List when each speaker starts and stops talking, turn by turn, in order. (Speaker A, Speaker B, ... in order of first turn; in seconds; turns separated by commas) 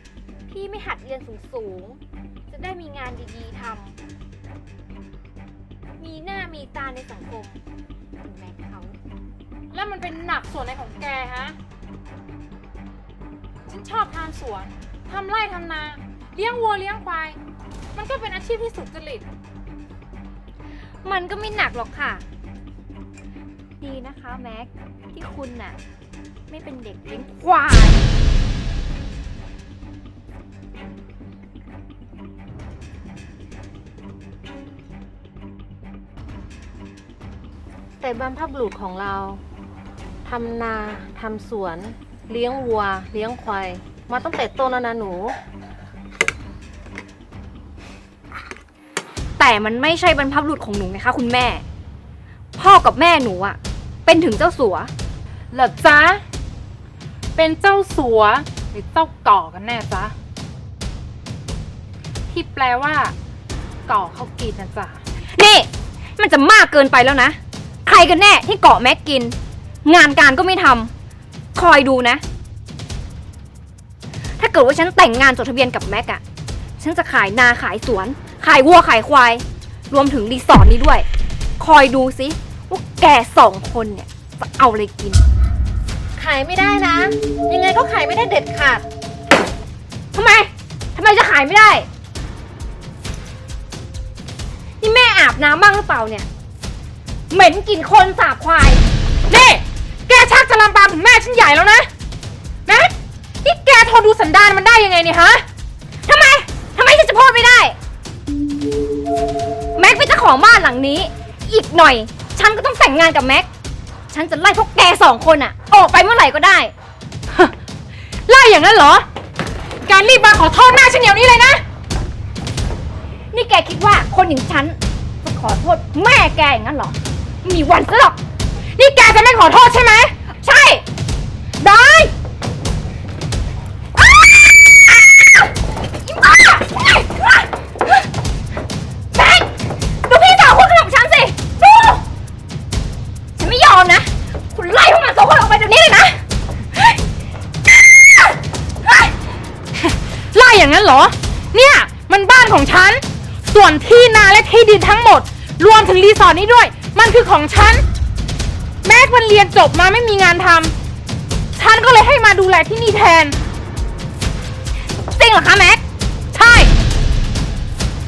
Speaker A: 0.5-4.0, Speaker A: 6.0-7.6, Speaker A: 8.2-9.0, Speaker B: 9.7-11.6, Speaker B: 13.7-17.4, Speaker B: 17.9-19.3, Speaker A: 21.0-22.2, Speaker A: 23.8-25.8, Speaker A: 26.5-28.1, Speaker C: 38.0-39.4, Speaker C: 40.2-45.4, Speaker A: 49.4-51.6, Speaker A: 52.6-54.9, Speaker B: 55.5-56.2, Speaker B: 57.4-60.1, Speaker B: 62.3-63.1, Speaker B: 63.9-65.0, Speaker A: 65.3-70.9, Speaker A: 71.5-72.2, Speaker A: 74.4-76.2, Speaker A: 76.8-81.1, Speaker A: 81.6-85.2, Speaker C: 86.2-88.8, Speaker A: 90.1-91.9, Speaker A: 94.8-96.3, Speaker A: 97.3-98.8, Speaker B: 99.3-101.9, Speaker B: 102.7-105.5, Speaker A: 106.1-107.8, Speaker A: 109.8-113.5, Speaker A: 114.1-116.7, Speaker B: 118.3-119.1, Speaker B: 119.8-121.6, Speaker A: 123.3-128.2, Speaker B: 128.8-130.2, Speaker A: 130.4-130.8, Speaker B: 131.6-132.1, Speaker A: 136.1-137.5, Speaker A: 139.1-142.1, Speaker A: 143.4-146.2, Speaker A: 148.8-149.1, Speaker B: 149.8-157.8, Speaker B: 158.8-160.7, Speaker B: 161.6-163.4, Speaker A: 165.0-165.8, Speaker B: 166.3-166.7